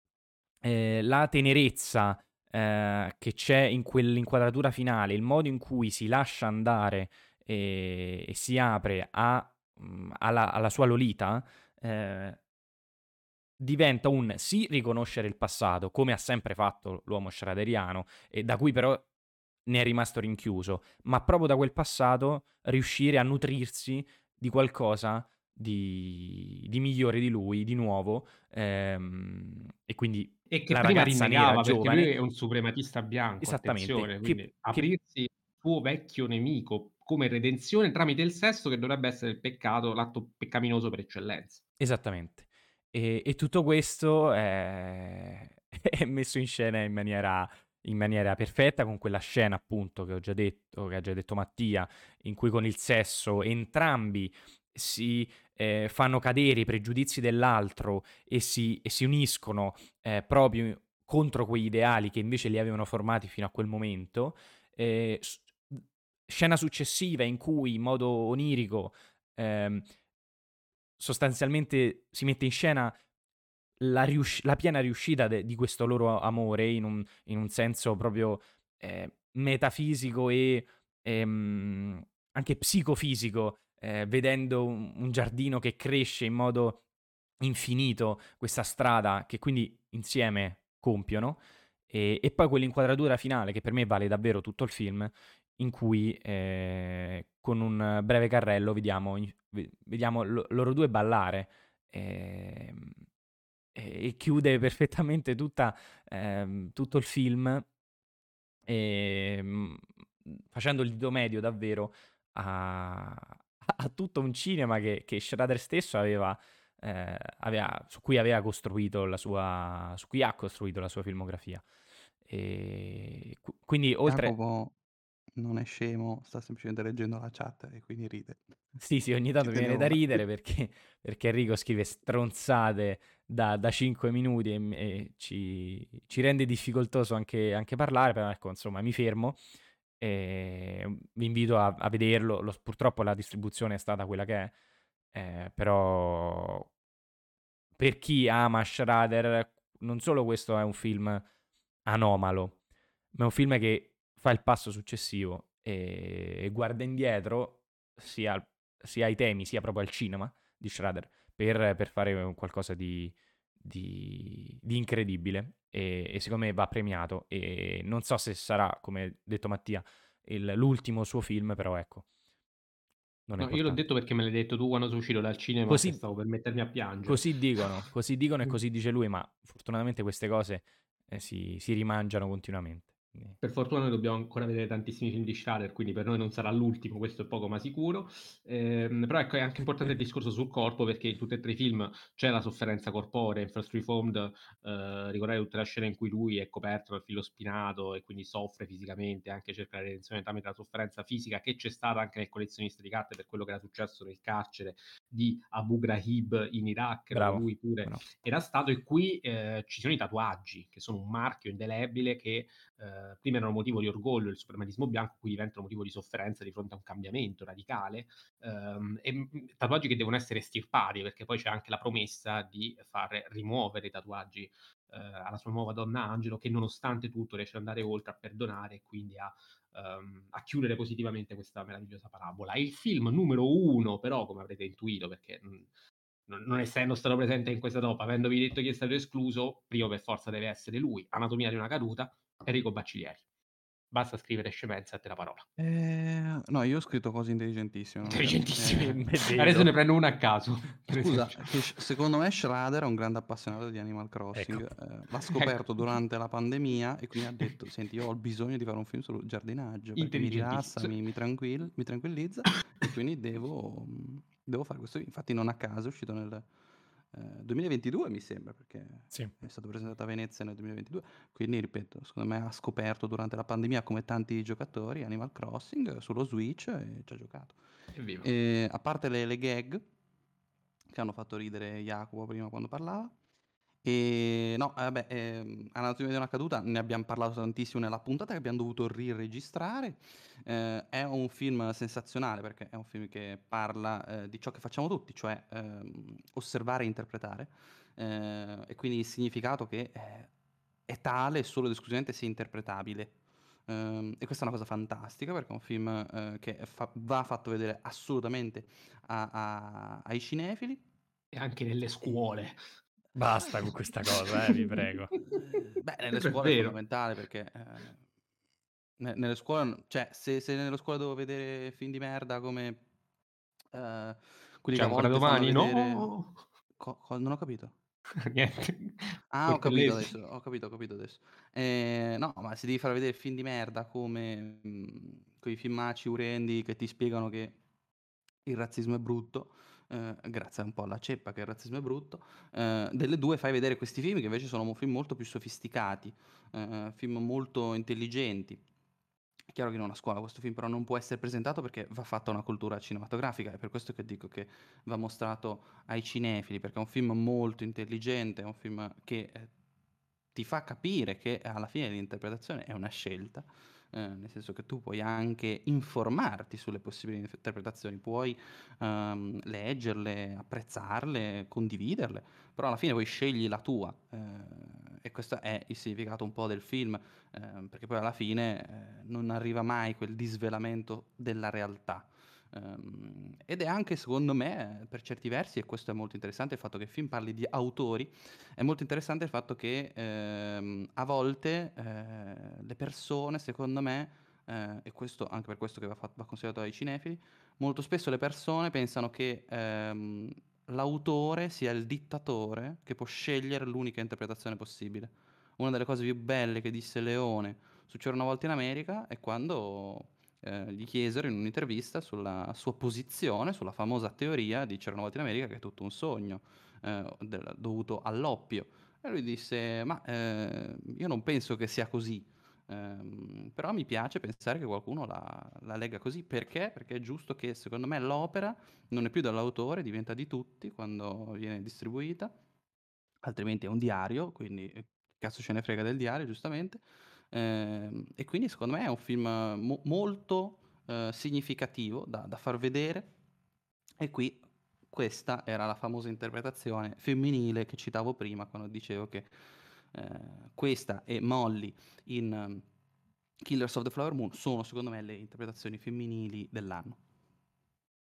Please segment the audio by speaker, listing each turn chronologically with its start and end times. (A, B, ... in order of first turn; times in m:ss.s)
0:00.6-0:12.4 A
0:13.6-0:19.1 A
0:19.7-0:32.1 A
0:30.5-0:41.6 B
0:33.4-0:34.9 A
0:41.8-1:09.9 A
1:11.0-1:12.9 A
1:13.8-1:26.8 A
1:27.4-1:43.0 A
1:43.8-1:47.7 A
1:48.7-2:01.6 A
2:02.3-2:04.4 A
2:04.1-2:04.8 C
2:05.4-2:08.8 C
2:08.8-2:19.4 A
2:09.4-2:10.2 C
2:20.0-2:24.5 A
2:25.1-2:26.7 A
2:27.8-2:31.2 A
2:31.9-2:32.6 A
2:33.1-2:52.0 A
2:53.3-2:53.8 A
2:53.4-2:57.6 B
2:55.7-2:56.0 A
2:57.1-3:03.4 A
3:03.4-3:55.7 B
3:27.1-3:28.1 A
3:56.3-4:03.2 B
4:03.9-4:05.5 B
4:05.6-4:09.0 C
4:08.1-4:11.5 B
4:09.0-4:09.7 A
4:11.0-4:26.5 C
4:14.3-4:14.7 A
4:20.0-4:21.0 B
4:27.1-4:37.6 C
4:38.0-4:38.3 B
4:38.2-4:39.8 C
4:40.9-4:43.1 C
4:43.8-5:00.3 C
5:00.9-5:03.2 C
5:03.7-5:10.8 C
5:11.3-5:12.8 B
5:13.2-5:15.1 A
5:14.1-5:16.8 B
5:15.4-5:18.0 C
5:19.0-5:22.8 C
5:23.7-5:26.1 C
5:24.7-5:26.4 B
5:26.8-5:27.8 C
5:28.2-5:30.1 B
5:29.3-5:37.6 C
5:38.4-5:48.6 C
5:49.5-5:59.5 C
6:00.4-7:12.3 C
7:13.2-7:23.1 C
7:24.0-7:29.3 C
7:29.9-7:32.6 C
7:33.4-7:37.0 C